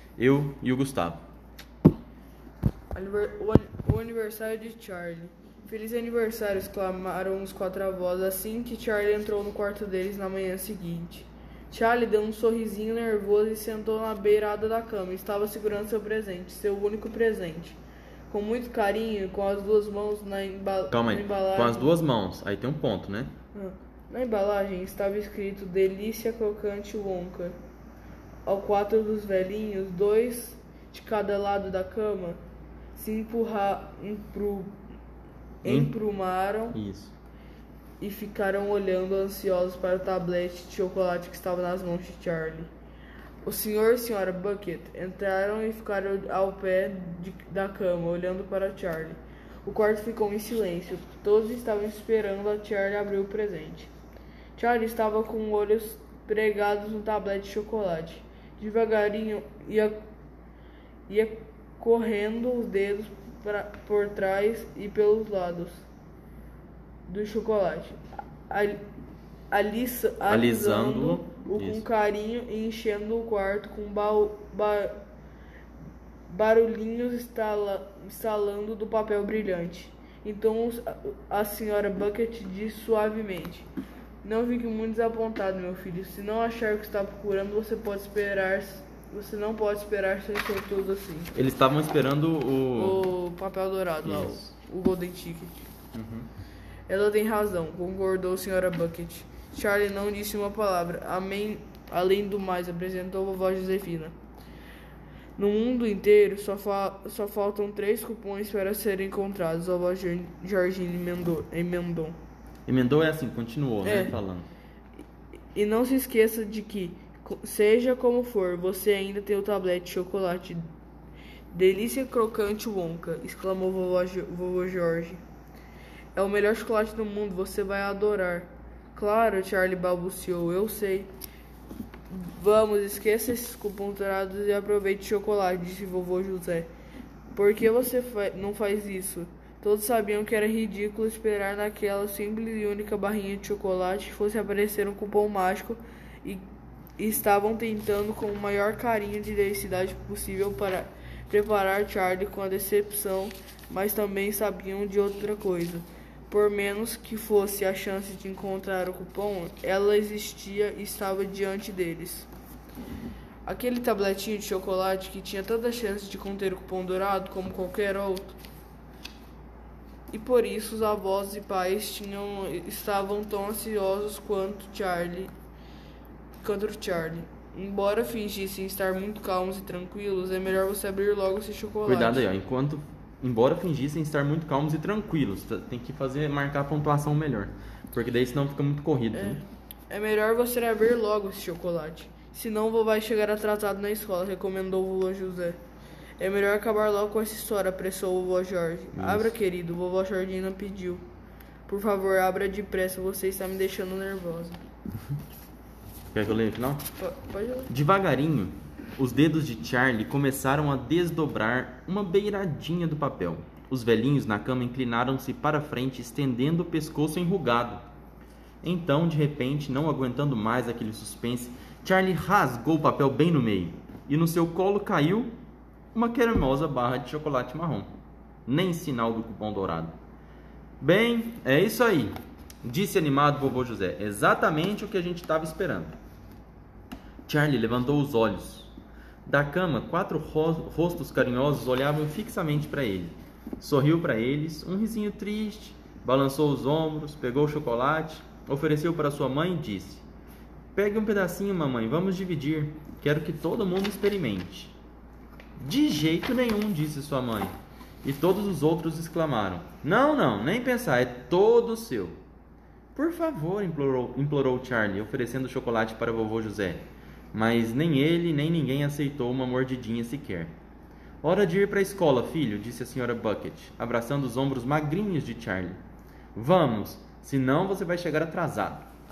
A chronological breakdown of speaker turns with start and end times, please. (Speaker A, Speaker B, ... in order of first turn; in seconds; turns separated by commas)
Speaker A: 0.2-1.2, Speaker B: 2.9-17.8, Speaker B: 18.3-21.9, Speaker A: 20.9-23.3, Speaker B: 23.5-27.6, Speaker B: 28.4-32.4, Speaker B: 32.9-34.7, Speaker B: 35.6-36.8, Speaker A: 35.6-35.9, Speaker A: 36.7-37.1, Speaker B: 38.0-42.7, Speaker B: 43.4-53.9, Speaker B: 54.5-60.0, Speaker B: 61.1-65.8, Speaker B: 67.1-68.8, Speaker B: 69.5-75.0, Speaker A: 70.3-71.8, Speaker B: 76.3-83.7, Speaker B: 84.2-91.3, Speaker A: 91.3-93.0, Speaker B: 92.8-95.5, Speaker A: 94.0-94.5, Speaker A: 95.9-96.3, Speaker B: 96.9-104.1, Speaker B: 105.4-112.2, Speaker A: 112.7-114.5, Speaker B: 113.8-114.1, Speaker B: 115.5-120.6, Speaker B: 121.5-125.2, Speaker B: 126.1-131.1, Speaker B: 132.1-136.7, Speaker B: 137.3-146.4, Speaker B: 147.0-162.3, Speaker B: 163.4-168.3, Speaker B: 170.1-175.3, Speaker B: 176.4-182.3, Speaker A: 181.8-189.4, Speaker B: 189.1-195.6, Speaker B: 196.2-201.1, Speaker A: 198.9-199.3, Speaker B: 201.7-204.6, Speaker A: 206.1-206.8, Speaker B: 207.0-207.7, Speaker A: 207.7-217.8, Speaker A: 218.6-225.3, Speaker A: 225.9-227.9, Speaker A: 228.4-229.9, Speaker A: 230.8-235.9, Speaker A: 237.3-238.7, Speaker A: 239.2-250.0, Speaker A: 250.7-254.7, Speaker A: 255.6-262.2, Speaker A: 262.9-270.5, Speaker A: 271.2-275.8, Speaker A: 276.3-278.9